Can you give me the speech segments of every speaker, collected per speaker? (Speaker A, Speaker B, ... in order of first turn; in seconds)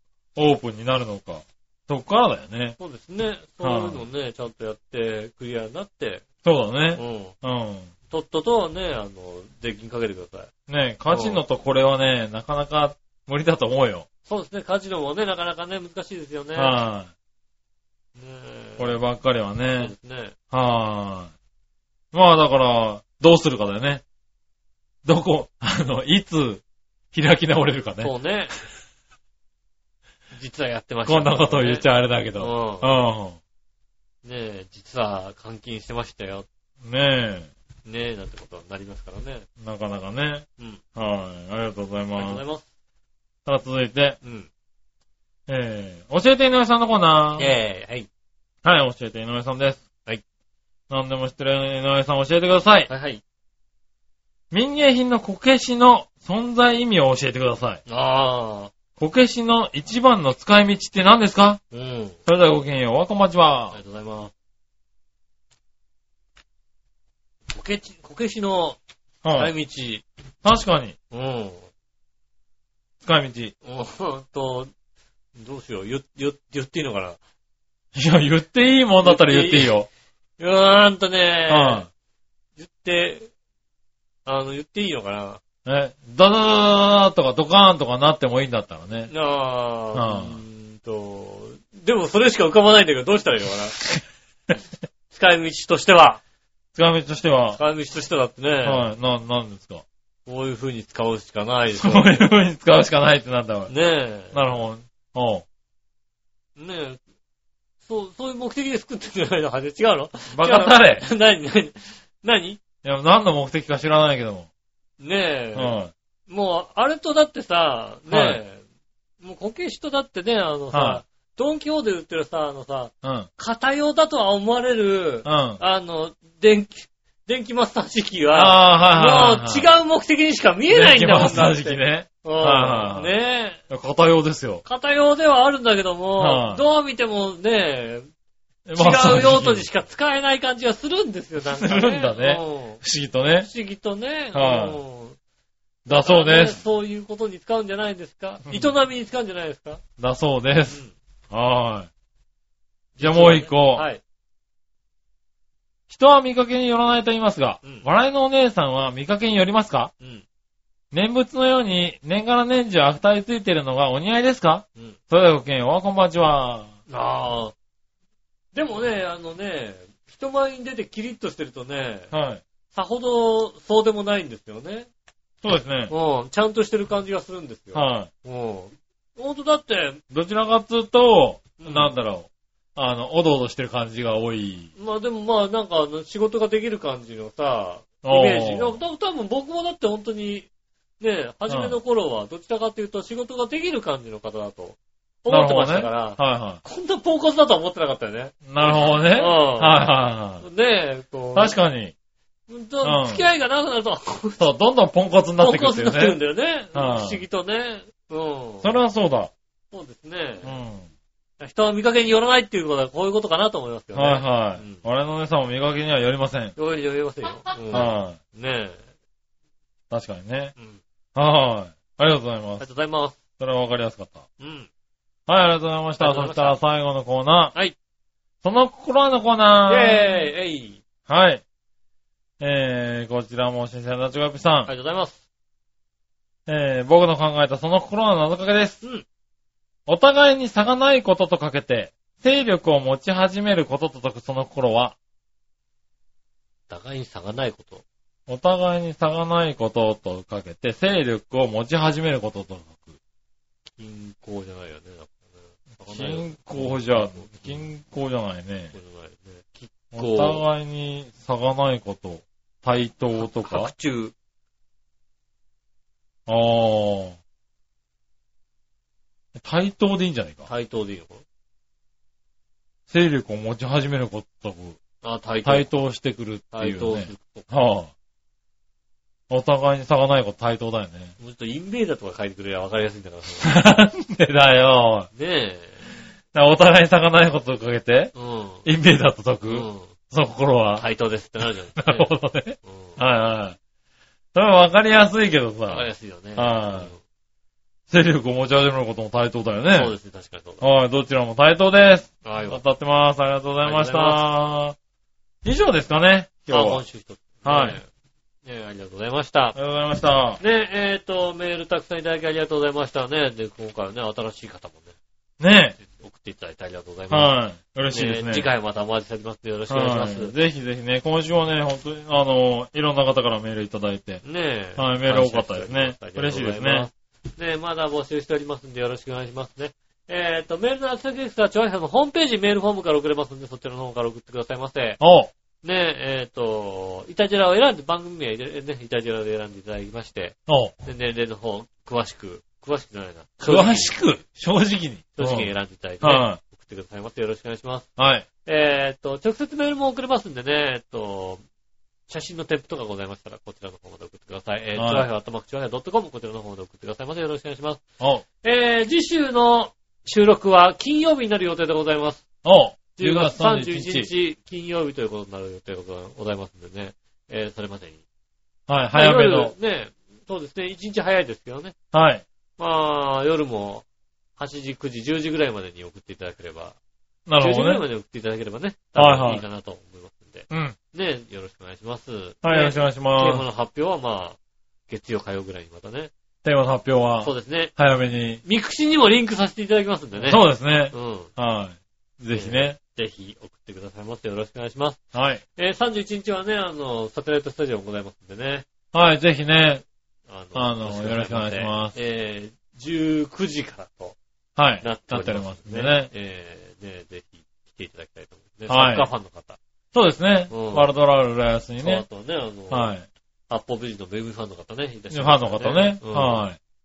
Speaker A: 0.4-2.8, 3.6-4.0, 6.4-7.9, 10.7-14.1, 16.6-17.1, 18.8-19.9, 20.5-21.3, 22.1-24.0, 25.1-28.1, 31.1-33.4, 36.8-37.5, 39.6-42.4, 43.5-44.2, 45.5-47.5, 48.6-49.8, 50.9-52.9, 54.5-57.8, 59.0-61.6, 62.3-63.8, 69.2-69.5, 70.4-71.0, 73.0-73.5, 78.0-79.9, 81.5-81.9, 85.7-89.1, 89.9-90.4, 96.8-97.6, 98.6-99.8, 101.7-103.7, 104.3-105.5, 110.3-111.0, 112.8-114.5, 115.5-115.9, 118.1-118.4, 120.7-121.0, 123.0-123.3, 125.2-125.6, 128.3-129.7, 130.7-133.1, 133.7-134.6, 136.2-136.6, 138.7-139.7, 141.5-143.5, 144.3-144.8, 145.9-146.6, 148.5-148.7, 150.0-151.9, 153.0-153.9, 155.9-159.9, 160.9-166.7, 172.1-172.4, 175.4-175.9, 177.7-178.1, 180.1-184.7, 188.0-188.8, 191.5-191.8, 195.3-196.6, 198.4-200.4, 201.3-201.9, 202.8-203.2, 204.4-206.2, 206.7-207.2, 208.6-209.3, 210.4-210.9, 213.9-216.6, 217.7-218.2, 219.9-220.5, 221.2-222.7, 223.4-224.2, 225.3-227.6, 228.4-230.3, 231.1-231.4, 232.4-234.7, 236.5-238.8, 239.9-245.0, 248.3-252.9, 255.9-258.7, 259.9-263.7, 266.3-267.2, 269.4-270.5, 272.9-274.8, 275.4-277.9, 279.3-281.1, 283.4-285.1, 286.3-288.1, 288.6-290.9, 291.8-293.6, 294.4-296.9, 297.9-299.9, 300.6-304.8, 305.4-306.8, 307.4-307.8, 309.6-310.4, 315.4-315.8, 317.1-318.5, 319.7-324.2, 324.8-326.9, 335.0-335.3, 340.5-340.7, 343.4-345.5, 346.0-346.4, 348.0-348.3, 354.8-355.1, 362.4-364.1, 368.7-369.5, 371.9-372.2, 377.3-377.9, 379.0-379.4, 380.5-380.8, 382.4-383.4, 386.4-388.4, 390.2-392.8, 395.1-395.4, 398.9-399.8, 400.6-401.9, 404.6-406.1, 408.7-409.1, 409.9-412.1, 412.7-413.1, 415.1-416.6
Speaker B: 2.8-6.2, 7.0-7.3, 8.1-10.5, 11.1-11.4, 14.3-16.8, 18.2-19.0, 19.8-20.4, 28.0-28.5, 30.3-33.0, 34.2-36.5, 37.9-39.5, 42.2-42.6, 44.2-44.5, 47.4-48.1, 52.9-53.2, 57.9-58.7, 61.7-62.2, 63.7-64.3, 67.5-68.8, 69.3-70.0, 71.1-71.7, 73.6-74.7, 75.4-77.2, 79.0-79.7, 80.4-81.9, 82.6-83.3, 84.3-85.4, 89.1-93.8, 95.1-96.2, 97.5-98.9, 100.3-102.2, 103.7-104.5, 106.6-107.0, 107.8-112.6, 115.0-115.8, 116.3-118.6, 119.2-133.6, 134.7-138.1, 138.8-142.8, 143.4-145.2, 145.9-149.8, 150.7-150.9, 153.0-154.0, 166.9-167.5, 168.5-172.1, 172.7-174.9, 175.9-180.0, 181.6-181.9, 184.8-190.5, 191.0-199.9, 200.4-201.6, 202.5-204.5, 205.4-208.7, 209.7-210.6, 211.4-214.8, 216.6-218.8, 222.6-223.2, 224.4-224.7, 226.0-226.6, 229.7-230.8, 234.7-235.2, 246.7-247.8, 253.8-257.6, 258.7-260.4, 263.2-264.1, 270.5-271.2, 275.0-275.7, 276.5-277.5, 281.2-283.6, 285.1-285.9, 288.1-288.6, 289.5-289.9, 290.8-292.1, 292.6-293.0, 295.7-297.0, 299.7-300.6, 302.2-302.6, 303.6-304.3, 306.5-307.9, 308.5-309.6, 310.4-314.9, 315.8-317.4, 317.9-320.3, 324.2-335.0, 335.6-344.0, 345.2-347.9, 348.4-351.4, 352.1-357.8, 358.4-362.2, 363.0-368.0, 368.9-371.8, 372.6-373.9, 374.4-376.8, 377.4-384.4, 384.9-386.1, 387.2-387.7, 388.4-391.3, 392.3-395.0, 395.6-398.7, 400.3-404.2, 404.8-409.6, 410.5-410.9, 411.8-412.9, 413.5-416.4